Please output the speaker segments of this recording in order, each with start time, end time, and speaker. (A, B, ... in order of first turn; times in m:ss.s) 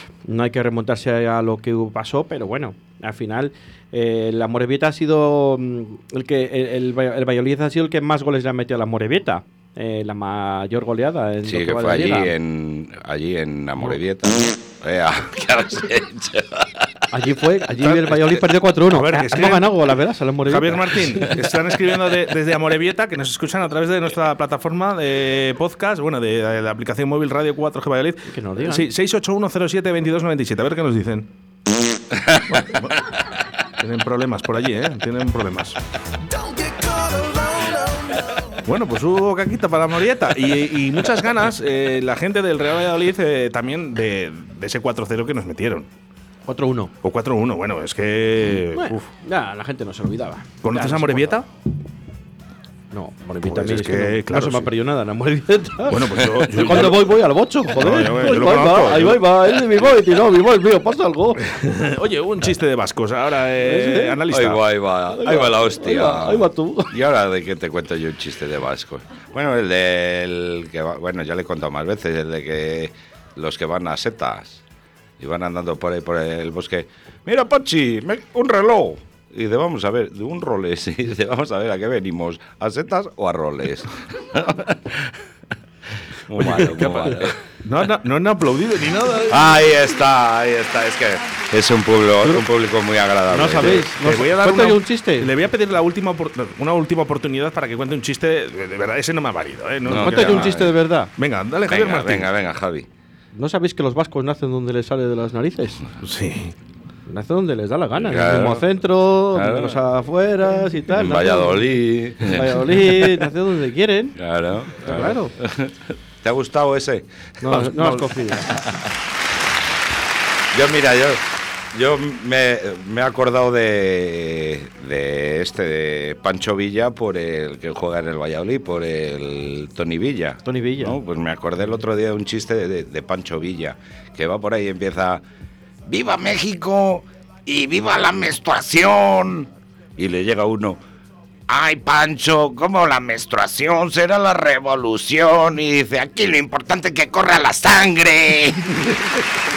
0:00.2-0:12.3 A
0:11.4-0:17.0 B
0:17.1-0:21.4 A
0:17.8-0:19.9 C
0:20.5-0:31.3 C
0:28.3-0:28.9 A
0:32.1-0:32.6 B
0:32.5-0:32.9 C
0:33.8-0:35.8 C
0:36.3-0:45.9 C
0:46.5-0:46.9 A
0:47.0-0:49.1 C
0:48.7-0:51.4 A
0:50.6-0:51.4 C
0:52.9-1:01.5 A
0:53.4-0:54.7 C
0:55.8-0:57.1 C
0:56.2-0:56.5 B
0:57.7-0:59.3 C
1:01.4-1:04.6 C
1:03.6-1:04.2 A
1:04.3-1:14.6 B
1:05.1-1:06.9 A
1:15.2-1:25.2 B
1:26.3-1:27.4 B
1:26.4-1:29.5 C
1:29.3-1:33.9 B
1:33.3-1:35.3 A
1:33.6-1:40.6 C
1:39.8-1:40.7 B
1:39.9-1:41.1 A
1:41.2-1:42.3 C
1:41.7-1:42.9 B
1:43.3-1:45.8 A
1:46.0-1:46.5 C
1:47.1-1:54.2 A
1:48.0-1:48.7 B
1:49.3-1:49.8 B
1:50.9-1:53.3 B
1:54.2-1:57.8 B
1:54.7-1:55.3 A
1:57.4-1:58.5 A
1:57.5-1:58.0 C
1:58.5-1:58.9 B
2:00.5-2:15.2 B
2:10.4-2:11.0 A
2:15.8-2:20.8 B
2:21.5-2:29.2 B